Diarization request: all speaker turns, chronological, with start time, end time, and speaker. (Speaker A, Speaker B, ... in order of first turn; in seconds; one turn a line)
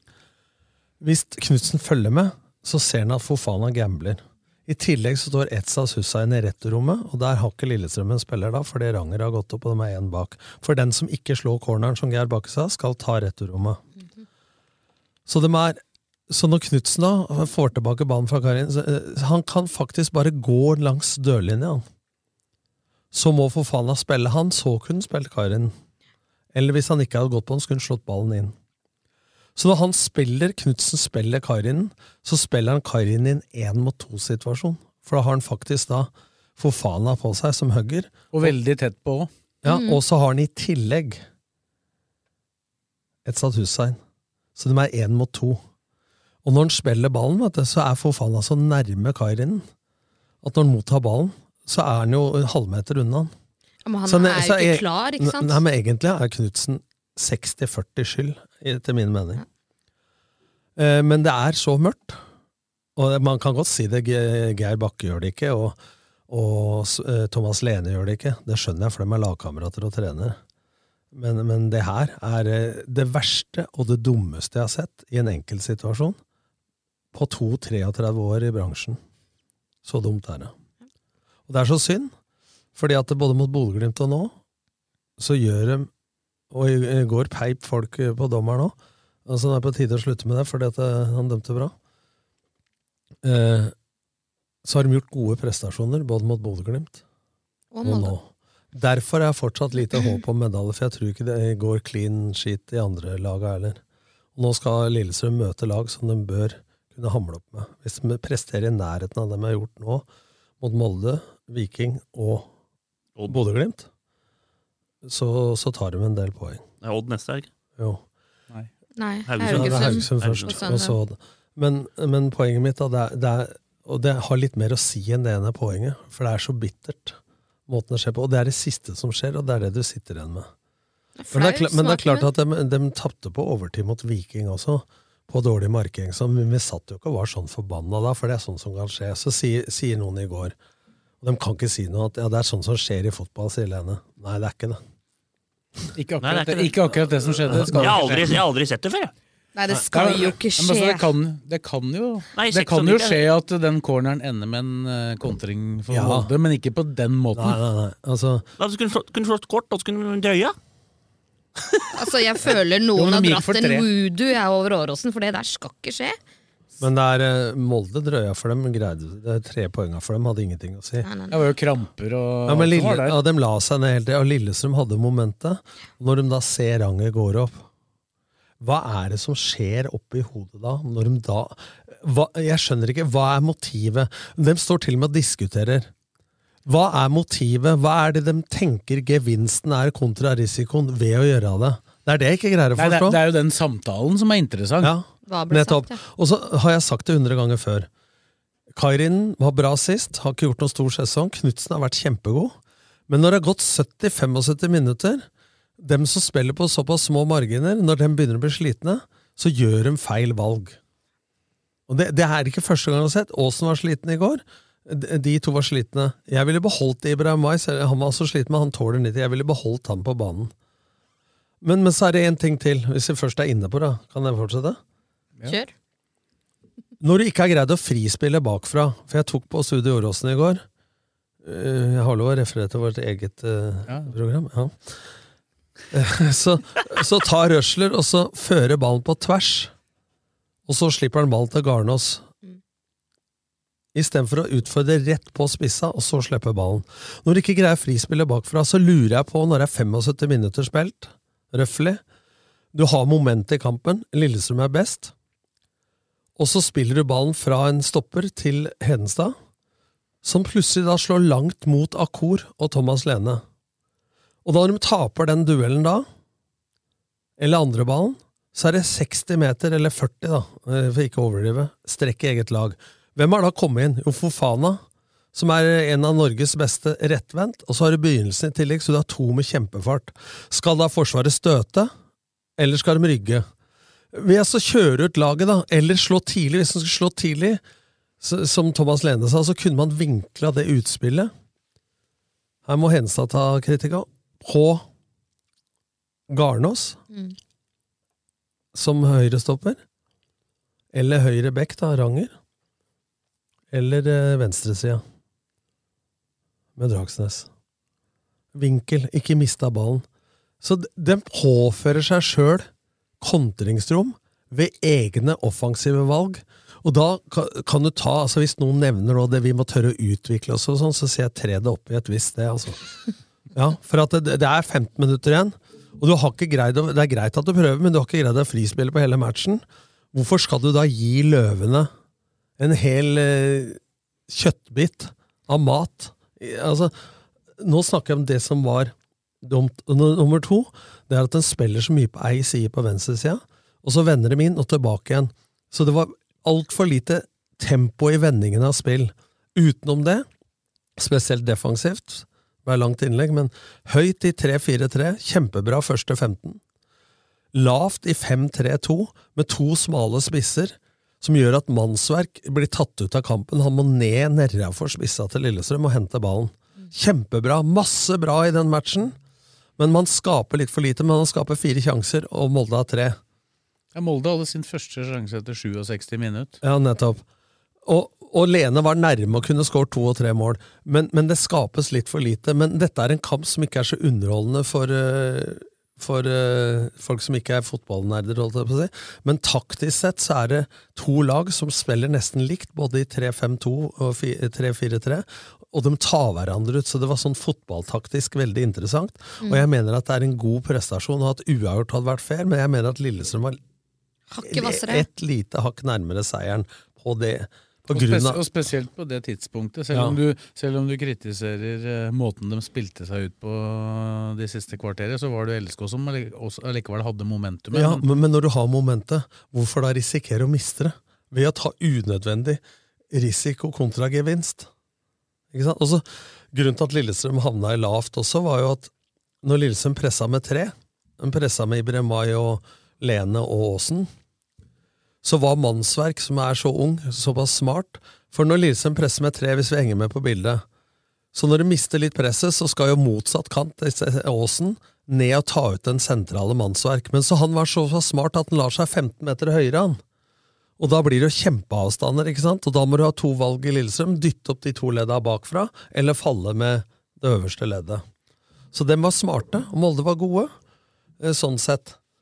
Speaker A: 1.0-13.8
Speaker A: 15.3-21.8
Speaker A: 23.1-25.7
Speaker A: 26.5-28.5
Speaker A: 29.6-38.5
Speaker B: 38.3-39.3
Speaker A: 39.6-41.2
Speaker C: 39.6-40.0
Speaker A: 43.2-44.0
Speaker A: 44.6-45.6
Speaker A: 46.4-49.7
Speaker A: 50.4-53.3
Speaker C: 53.9-55.6
Speaker A: 54.0-59.4
Speaker A: 60.8-62.2
Speaker A: 63.0-65.8
Speaker A: 66.3-70.4
Speaker A: 71.1-76.2
Speaker A: 77.1-79.0
Speaker A: 79.8-80.5
Speaker A: 81.5-82.1
Speaker A: 82.8-84.3
Speaker A: 85.2-85.9
Speaker A: 86.5-88.8
Speaker A: 89.3-91.7
Speaker A: 93.2-93.7
Speaker A: 94.7-97.0
Speaker C: 97.7-98.2
Speaker A: 97.8-103.8
Speaker A: 104.4-110.1
Speaker A: 110.6-112.5
Speaker A: 113.3-113.9
Speaker A: 115.0-116.6
Speaker D: 116.8-117.5
Speaker A: 117.8-118.0
Speaker C: 119.0-121.0
Speaker D: 119.3-120.5
Speaker A: 119.4-130.5
Speaker C: 131.2-132.3
Speaker A: 131.3-140.6
Speaker A: 141.2-144.8
Speaker B: 146.0-148.4
Speaker D: 146.2-149.1
Speaker A: 147.5-148.2
Speaker C: 149.6-151.1
Speaker B: 149.9-157.6
Speaker D: 152.3-153.3
Speaker A: 155.9-156.3
Speaker A: 157.3-158.5
Speaker D: 158.6-160.6
Speaker C: 161.9-166.2
Speaker B: 162.9-163.9
Speaker A: 166.8-171.1
Speaker C: 171.0-171.4
Speaker B: 171.3-173.2
Speaker A: 172.5-177.6
Speaker A: 178.6-185.9
Speaker A: 186.7-193.2
Speaker B: 192.8-194.9
Speaker A: 194.8-197.9
Speaker C: 195.3-196.0
Speaker A: 198.7-202.6
Speaker A: 203.1-205.3
Speaker A: 205.8-210.8
Speaker A: 211.9-220.5
Speaker A: 221.6-224.8
Speaker C: 225.5-225.7
Speaker A: 227.0-230.6
Speaker A: 231.4-235.0
Speaker B: 233.9-234.1
Speaker A: 235.9-239.7
Speaker A: 240.7-242.2
Speaker A: 243.9-252.0
Speaker A: 252.7-255.1
Speaker A: 256.4-259.4
Speaker A: 260.2-263.4
Speaker A: 264.4-266.1
Speaker A: 267.4-274.8
Speaker A: 275.3-281.9
Speaker A: 282.6-283.4
Speaker A: 284.1-287.6
Speaker A: 288.2-291.3
Speaker A: 292.7-294.9
Speaker A: 296.3-297.0
Speaker A: 298.7-299.8
Speaker A: 300.9-302.3
Speaker A: 303.7-305.0
Speaker A: 306.8-307.5
Speaker A: 308.5-310.1
Speaker A: 310.6-312.7
Speaker A: 313.2-323.0
Speaker A: 323.5-331.9
Speaker A: 332.6-336.9
Speaker A: 337.6-350.3
Speaker A: 351.0-356.6
Speaker A: 357.5-369.2
Speaker A: 369.8-373.2
Speaker B: 373.9-376.6
Speaker A: 376.6-377.2
Speaker A: 377.9-403.6
Speaker C: 404.3-405.1
Speaker A: 404.4-408.4
Speaker B: 407.9-418.0
Speaker A: 409.9-410.2
Speaker A: 417.7-424.7
Speaker A: 425.5-428.9
Speaker A: 429.4-434.1
Speaker A: 435.2-440.6
Speaker A: 441.3-450.0
Speaker A: 450.8-458.0
Speaker A: 458.7-460.5
Speaker A: 461.2-462.0